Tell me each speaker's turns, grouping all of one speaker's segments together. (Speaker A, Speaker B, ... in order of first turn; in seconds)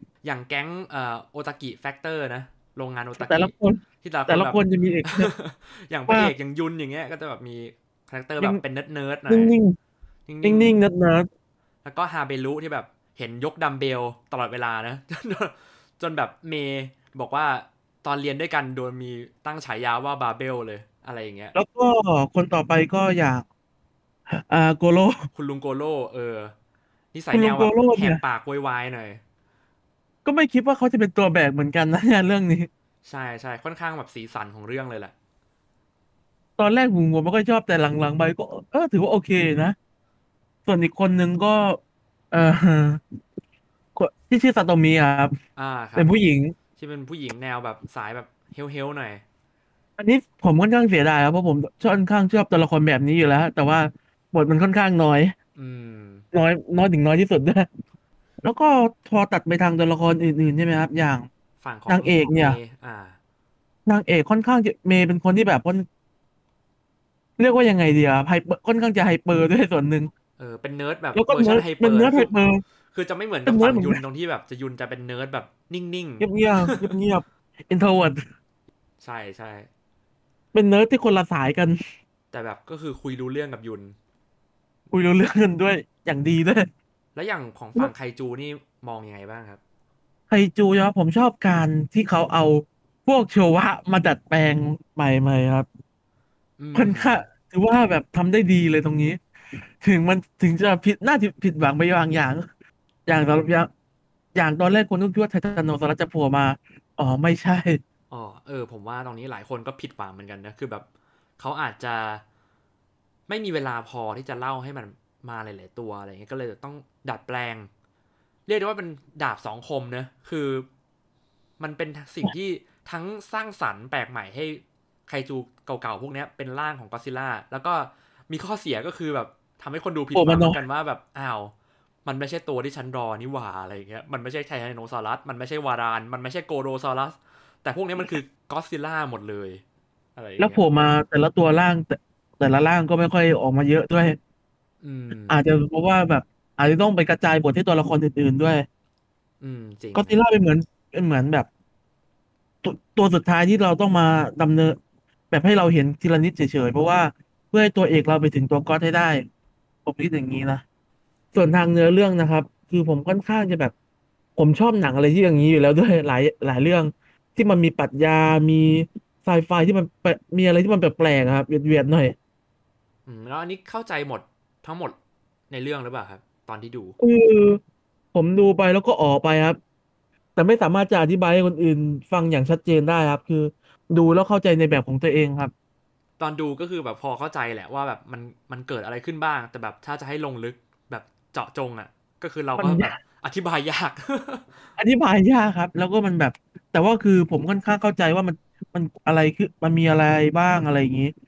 Speaker A: 0.2-9.5, 10.3-10.8, 11.8-21.6, 25.3-26.5, 27.1-29.2, 33.0-35.1, 45.6-46.1, 46.8-49.2, 55.6-56.2, 61.6-63.2, 70.4-72.3, 72.9-76.9, 79.0-79.7, 82.3-84.0, 87.2-89.6, 96.6-97.3, 108.1-110.9, 111.4-112.2, 113.3-117.7, 118.5-120.7, 121.6-131.5, 132.1-139.6, 140.2-140.6, 144.8-145.4, 149.4-150.2, 173.1-175.0, 175.5-177.0, 186.2-194.7
Speaker B: 3.2-5.3, 6.1-6.3, 9.3-9.8, 10.4-11.3, 21.6-23.4, 24.3-25.3, 27.3-28.2, 30.2-32.7, 36.6-39.8, 40.7-41.8, 42.3-43.0, 44.0-45.4, 46.0-46.5, 50.0-55.3, 56.3-57.7, 58.4-61.3, 61.9-62.6, 63.9-65.9, 67.4-70.1, 71.2-72.6, 73.5-74.0, 76.2-78.2, 80.5-81.8, 84.9-86.7, 90.3-95.7, 96.8-99.2, 99.8-102.5, 103.1-103.7, 104.3-107.8, 130.1-130.6, 140.4-144.2, 145.3-148.7, 149.9-151.5, 152.6-154.8, 155.3-159.2, 159.9-160.6, 161.3-163.7, 164.4-172.2, 177.0-177.6, 178.1-179.6, 180.4-185.5, 192.6-193.0, 194.8-201.1